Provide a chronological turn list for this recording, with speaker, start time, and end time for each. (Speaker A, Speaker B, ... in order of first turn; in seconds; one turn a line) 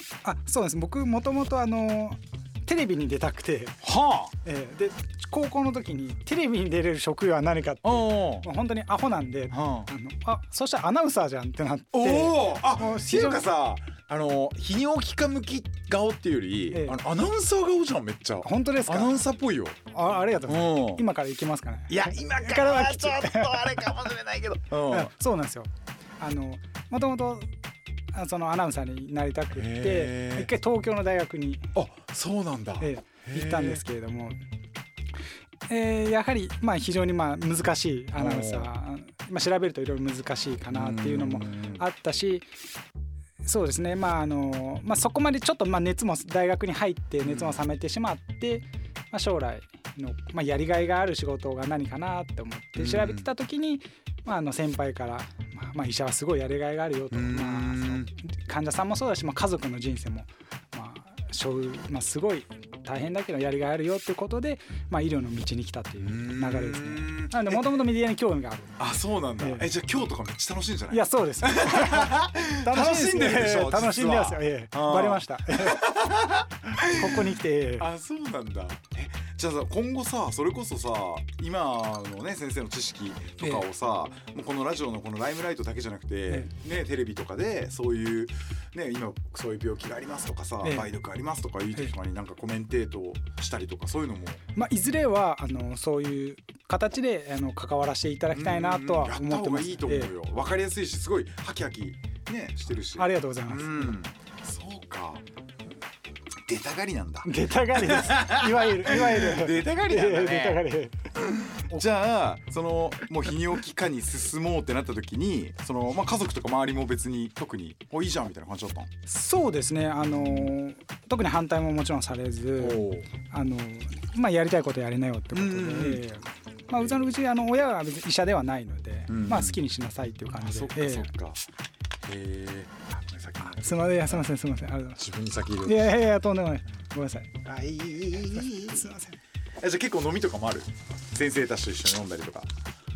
Speaker A: 0.2-3.8
Speaker B: 3.8-4.3
Speaker A: 4.4-13.5
Speaker B: 7.8-8.5
Speaker B: 9.5-9.9
Speaker B: 11.9-19.8
Speaker A: 16.7-17.0
Speaker A: 18.4-19.2
Speaker A: 19.9-23.9
Speaker B: 20.4-21.0
Speaker B: 21.9-25.1
Speaker A: 24.9-27.5
Speaker A: 28.1-31.7
Speaker B: 29.5-30.5
Speaker B: 31.7-33.8
Speaker A: 32.8-34.4
Speaker A: 35.7-42.5
Speaker B: 38.2-38.7
Speaker B: 40.7-41.8
Speaker A: 43.4-69.7
Speaker B: 47.2-47.6
Speaker B: 52.8-53.3
Speaker B: 57.1-58.1
Speaker B: 66.0-67.8
Speaker B: 68.8-94.4
Speaker A: 70.9-75.9
Speaker A: 76.7-77.9
Speaker A: 90.6-90.9
Speaker A: 94.5-100.1
Speaker B: 98.3-105.2
Speaker A: 103.0-104.0
Speaker B: 106.4-110.6
Speaker A: 107.2-111.0
Speaker B: 111.2-118.9
Speaker A: 119.1-131.1
Speaker B: 120.0-120.5
Speaker B: 122.6-123.1
Speaker B: 125.3-126.0
Speaker B: 126.7-127.1
Speaker B: 129.1-129.6
Speaker B: 130.4-131.4
Speaker B: 132.1-134.2
Speaker A: 133.6-135.0
Speaker B: 135.0-136.1
Speaker A: 135.6-137.3
Speaker B: 137.4-138.9
Speaker A: 138.7-139.2
Speaker B: 139.6-142.5